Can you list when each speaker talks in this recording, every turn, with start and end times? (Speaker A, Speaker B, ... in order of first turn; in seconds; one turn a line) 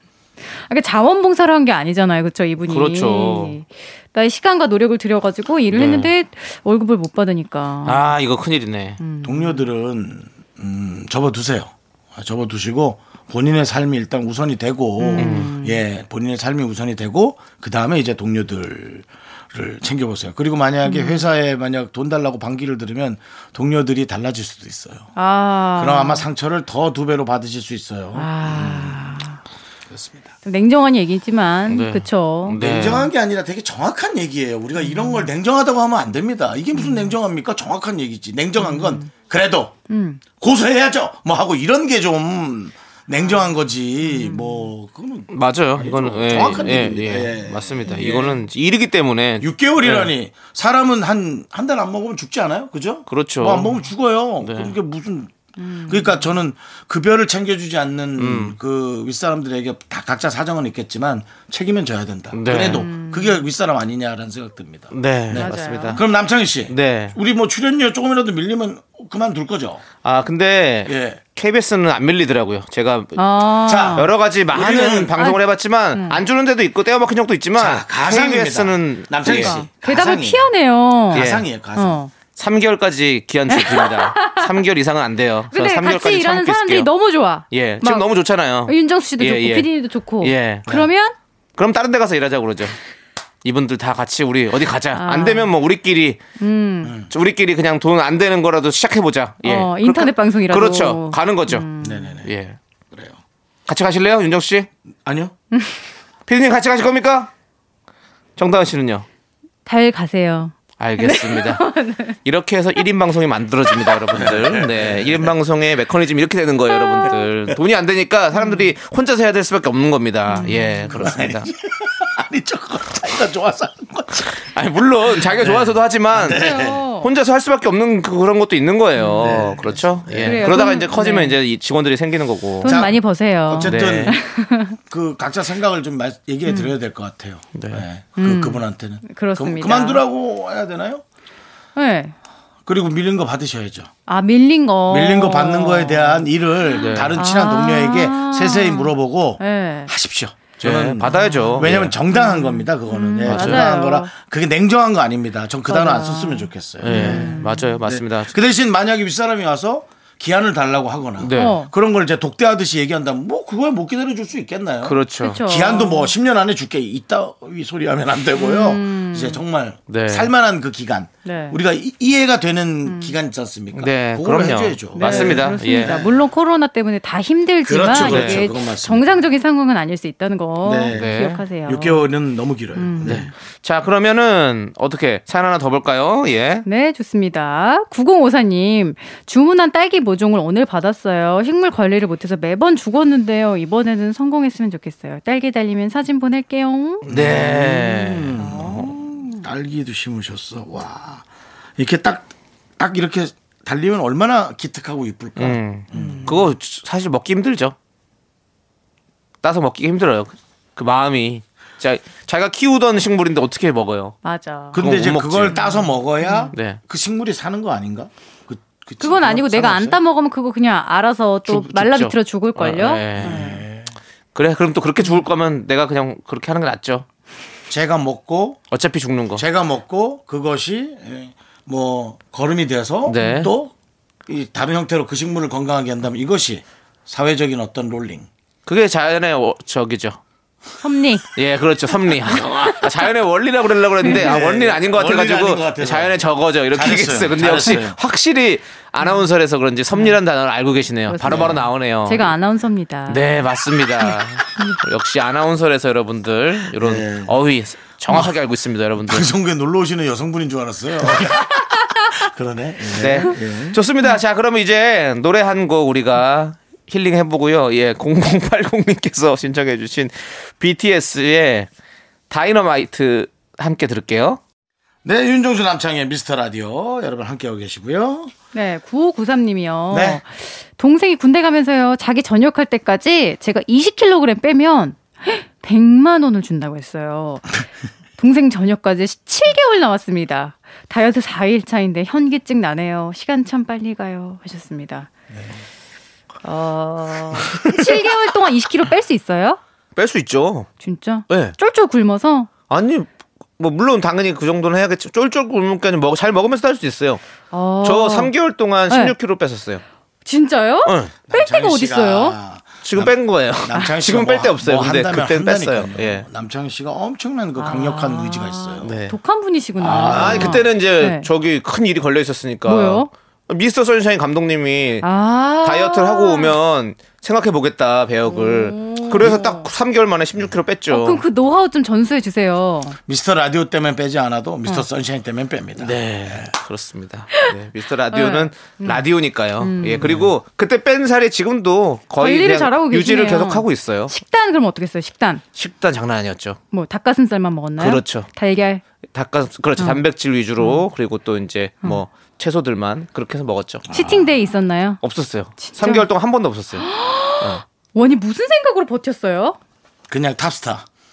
Speaker A: 0.7-8.1
Speaker B: 2.7-3.6
Speaker B: 5.7-6.1
Speaker B: 7.8-9.0
Speaker A: 9.0-9.7
Speaker C: 9.2-25.1
Speaker A: 15.0-15.8
Speaker B: 15.2-15.5
Speaker A: 20.8-21.3
Speaker A: 25.2-26.3
Speaker C: 25.8-29.1
Speaker A: 28.1-29.4
Speaker C: 29.9-30.3
Speaker A: 30.4-32.9
Speaker B: 31.7-33.1
Speaker C: 32.6-39.7
Speaker A: 34.8-35.3
Speaker A: 36.7-37.1
Speaker A: 38.6-39.1
Speaker A: 39.9-40.2
Speaker C: 40.4-48.4
Speaker A: 44.0-44.7
Speaker B: 45.3-50.1
Speaker C: 49.4-69.8
Speaker B: 53.1-53.8
Speaker B: 54.4-54.7
Speaker A: 55.6-56.3
Speaker B: 58.2-58.6
Speaker B: 62.3-62.9
Speaker A: 62.6-63.5
Speaker B: 64.9-66.0
Speaker A: 65.4-66.0
Speaker B: 66.7-67.2
Speaker B: 70.0-73.2
Speaker C: 70.9-71.2
Speaker A: 73.2-74.1
Speaker C: 73.7-75.2
Speaker B: 73.9-79.6
Speaker A: 75.9-76.2
Speaker C: 77.6-80.5
Speaker A: 79.3-82.1
Speaker C: 81.1-82.0
Speaker B: 81.1-81.5
Speaker B: 82.4-86.9
Speaker A: 83.5-84.5
Speaker A: 85.5-88.1
Speaker B: 87.5-89.7
Speaker A: 88.7-91.2
Speaker B: 90.2-90.8
Speaker B: 91.6-92.8
Speaker B: 93.5-96.2
Speaker A: 94.9-95.5
Speaker A: 96.4-97.0
Speaker C: 96.8-97.1
Speaker B: 97.1-101.7
Speaker A: 99.4-102.2
Speaker C: 101.8-102.3
Speaker B: 102.2-102.6
Speaker C: 102.9-103.2
Speaker B: 103.7-104.7
Speaker C: 105.0-105.3
Speaker A: 105.5-105.8
Speaker B: 106.3-107.3
Speaker B: 108.4-109.1
Speaker A: 109.7-112.2
Speaker B: 110.8-111.7
Speaker B: 112.2-121.5
Speaker C: 114.1-115.3
Speaker A: 116.7-117.3
Speaker A: 118.3-118.7
Speaker A: 120.3-121.0
Speaker C: 120.9-124.3
Speaker B: 124.2-126.4
Speaker C: 125.2-126.8
Speaker A: 126.3-127.1
Speaker B: 127.0-132.8
Speaker A: 129.0-129.5
Speaker C: 129.2-130.6
Speaker A: 130.2-131.4
Speaker A: 132.6-134.8
Speaker C: 132.6-134.2
Speaker B: 133.7-134.2
Speaker C: 134.9-141.0
Speaker A: 136.5-136.7
Speaker B: 137.6-137.8
Speaker A: 138.2-140.0
Speaker A: 141.8-142.2
Speaker C: 142.7-143.9
Speaker A: 144.1-149.9
Speaker C: 144.9-176.1
Speaker B: 146.8-147.2
Speaker B: 150.6-151.9
Speaker A: 151.1-154.1
Speaker B: 153.2-153.7
Speaker A: 155.7-157.8
Speaker B: 156.8-158.3
Speaker B: 161.2-161.6
Speaker A: 161.3-161.7
Speaker B: 164.8-165.4
Speaker A: 165.2-166.1
Speaker A: 168.4-169.4
Speaker B: 169.9-170.3
Speaker A: 171.2-171.6
Speaker A: 172.8-173.2
Speaker B: 173.7-176.0
Speaker A: 175.0-182.0
Speaker C: 177.6-179.1
Speaker B: 178.0-178.4
Speaker C: 180.6-183.3
Speaker B: 180.9-181.4
Speaker A: 182.8-183.3
Speaker B: 183.1-186.7
Speaker A: 186.7-197.1
Speaker B: 197.0-198.4
Speaker C: 197.1-201.3
Speaker A: 198.4-199.4
Speaker C: 201.8-206.5
Speaker B: 205.4-207.8
Speaker A: 205.9-206.3
Speaker B: 209.4-214.2
Speaker A: 214.2-214.8
Speaker C: 214.7-220.0
Speaker B: 214.8-215.6
Speaker A: 215.5-216.5
Speaker B: 216.5-216.8
Speaker A: 219.0-223.6
Speaker B: 221.5-223.5
Speaker C: 223.2-223.9
Speaker B: 224.3-227.1
Speaker C: 227.7-228.6
Speaker B: 228.7-229.4
Speaker C: 229.4-233.7
Speaker B: 233.1-233.5
Speaker A: 233.2-233.5
Speaker C: 234.3-238.3
Speaker B: 238.7-240.2
Speaker A: 240.8-241.3
Speaker B: 241.3-252.3
Speaker C: 242.3-242.8
Speaker C: 244.0-248.0
Speaker A: 251.1-253.2
Speaker C: 251.2-251.6
Speaker B: 253.1-259.3
Speaker A: 254.1-254.8
Speaker C: 256.8-257.3
Speaker C: 258.1-258.3
Speaker C: 259.0-263.8
Speaker A: 261.4-262.1
Speaker B: 262.9-271.7
Speaker B: 272.3-274.4
Speaker C: 275.1-278.3
Speaker A: 278.5-287.6
Speaker C: 279.9-280.2
Speaker A: 288.2-295.1
Speaker A: 296.4-299.6
Speaker B: 300.0-300.7
Speaker A: 300.8-302.5
Speaker B: 301.3-301.6
Speaker B: 302.7-307.2
Speaker A: 307.5-308.3
Speaker B: 307.8-309.8
Speaker A: 308.9-309.1
Speaker A: 310.2-312.4
Speaker B: 310.9-311.1
Speaker C: 311.3-319.0
Speaker B: 312.8-316.3
Speaker A: 317.6-321.3
Speaker B: 318.8-319.2
Speaker C: 319.8-320.7
Speaker B: 320.1-325.1
Speaker A: 322.7-323.1
Speaker A: 325.0-326.6
Speaker B: 325.6-331.2
Speaker A: 328.3-329.7
Speaker A: 330.9-333.0
Speaker C: 333.1-336.5
Speaker B: 335.8-344.1
Speaker A: 338.1-339.1
Speaker A: 339.6-340.1
Speaker C: 340.0-340.3
Speaker A: 342.2-345.4
Speaker B: 345.6-346.6
Speaker A: 346.7-348.8
Speaker B: 347.8-348.3
Speaker B: 349.1-353.9
Speaker A: 350.6-350.9
Speaker C: 353.9-354.3
Speaker A: 353.9-355.0
Speaker B: 355.0-356.9
Speaker A: 355.6-356.1
Speaker A: 356.8-359.6
Speaker C: 360.1-360.9